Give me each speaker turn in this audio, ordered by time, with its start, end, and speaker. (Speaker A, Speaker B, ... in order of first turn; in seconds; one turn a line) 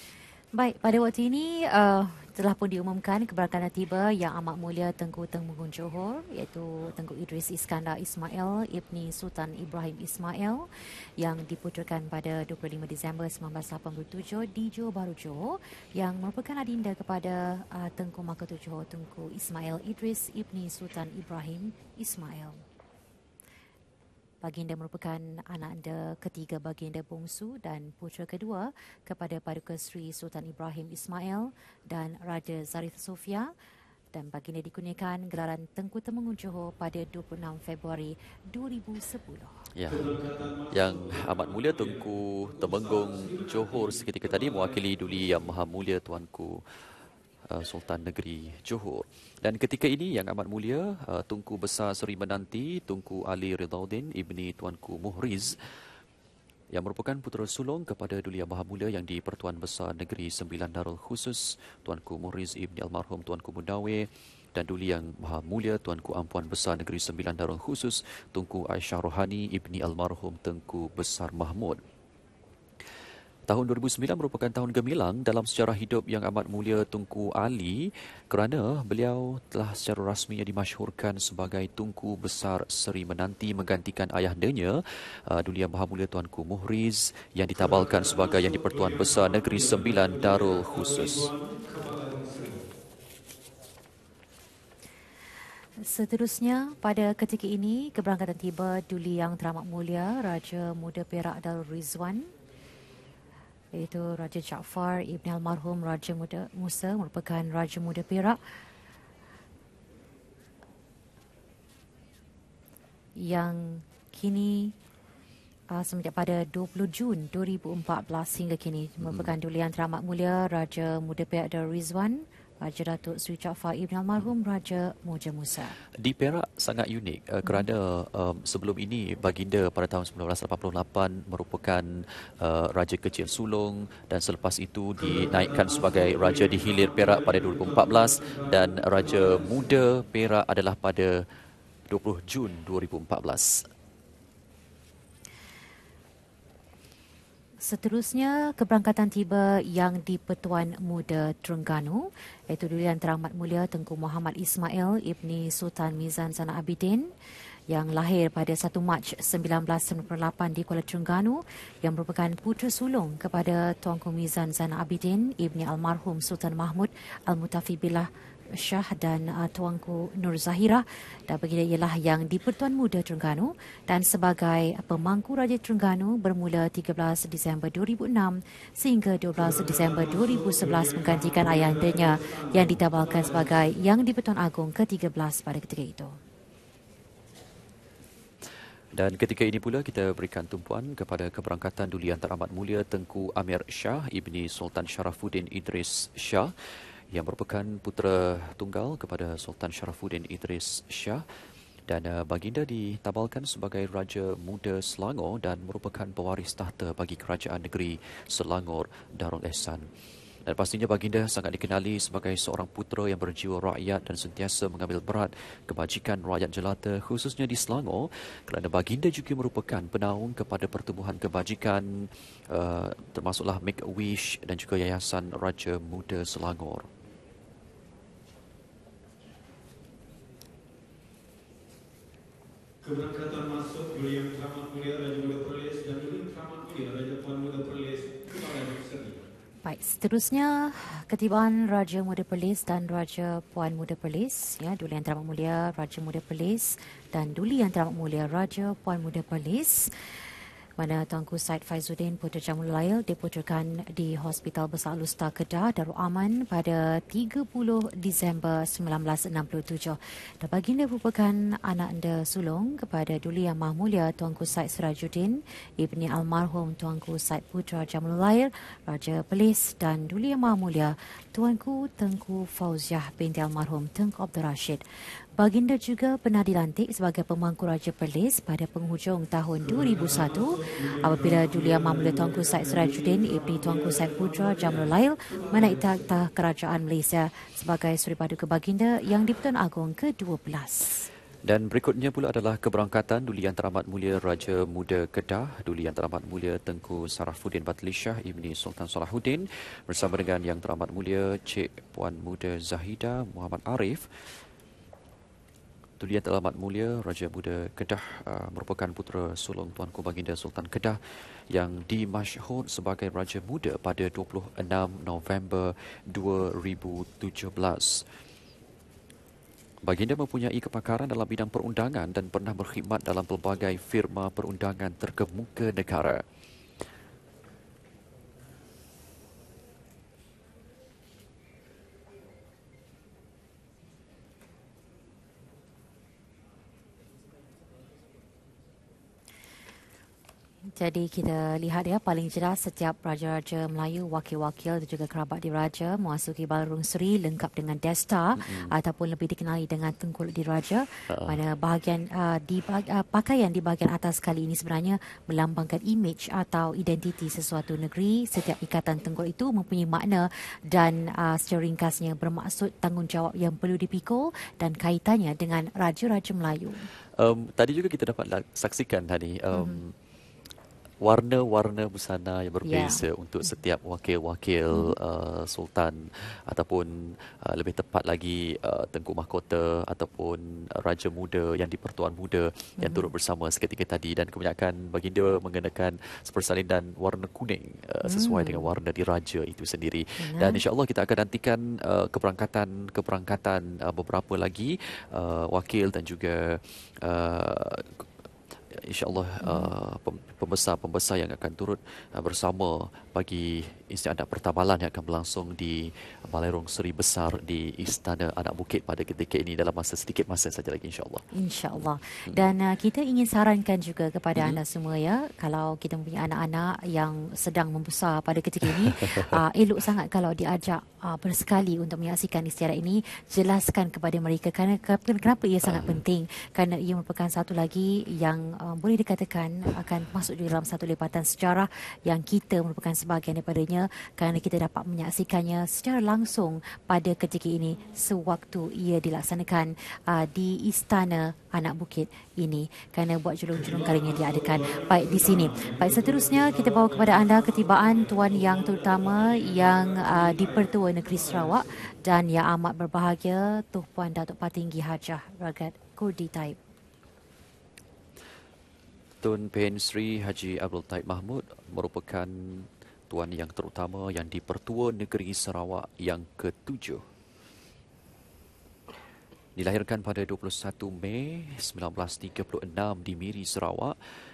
Speaker A: 0.6-10.6
Speaker A: 11.2-22.6
Speaker A: 24.4-33.5
Speaker A: 34.1-39.6
Speaker B: 39.7-40.1
Speaker C: 39.9-42.0
Speaker B: 40.7-46.6
Speaker C: 42.5-45.5
Speaker B: 47.5-55.6
Speaker B: 56.7-71.8
Speaker B: 73.5-91.3
Speaker C: 87.6-92.6
Speaker A: 95.8-102.3
Speaker A: 103.7-108.4
Speaker A: 113.2-114.7
Speaker A: 115.7-125.8
Speaker B: 119.0-119.3
Speaker B: 125.9-141.2
Speaker C: 135.0-139.7
Speaker B: 141.9-143.7
Speaker A: 147.6-157.1
Speaker A: 157.7-186.2
Speaker C: 179.4-183.6
Speaker B: 188.9-196.5
Speaker B: 197.1-201.2
Speaker B: 201.9-209.9
Speaker B: 210.4-226.9
Speaker C: 232.8-239.2
Speaker A: 239.6-249.9
Speaker A: 250.8-274.8
Speaker A: 275.4-291.1
Speaker C: 279.7-286.0
Speaker B: 291.4-304.1
Speaker B: 306.0-318.0
Speaker B: 319.8-326.2
Speaker A: 340.8-366.8
Speaker B: 348.4-348.7
Speaker B: 351.1-351.4
Speaker B: 367.2-369.9
Speaker A: 369.5-369.8
Speaker B: 371.0-398.1
Speaker A: 372.6-373.0
Speaker A: 382.8-383.1
Speaker A: 388.0-388.7
Speaker A: 390.2-390.6
Speaker B: 398.7-411.2
Speaker A: 399.4-399.7
Speaker A: 411.3-456.6
Speaker B: 418.6-419.4
Speaker B: 425.6-426.0
Speaker C: 443.5-451.6
Speaker B: 459.2-467.0
Speaker B: 469.6-474.0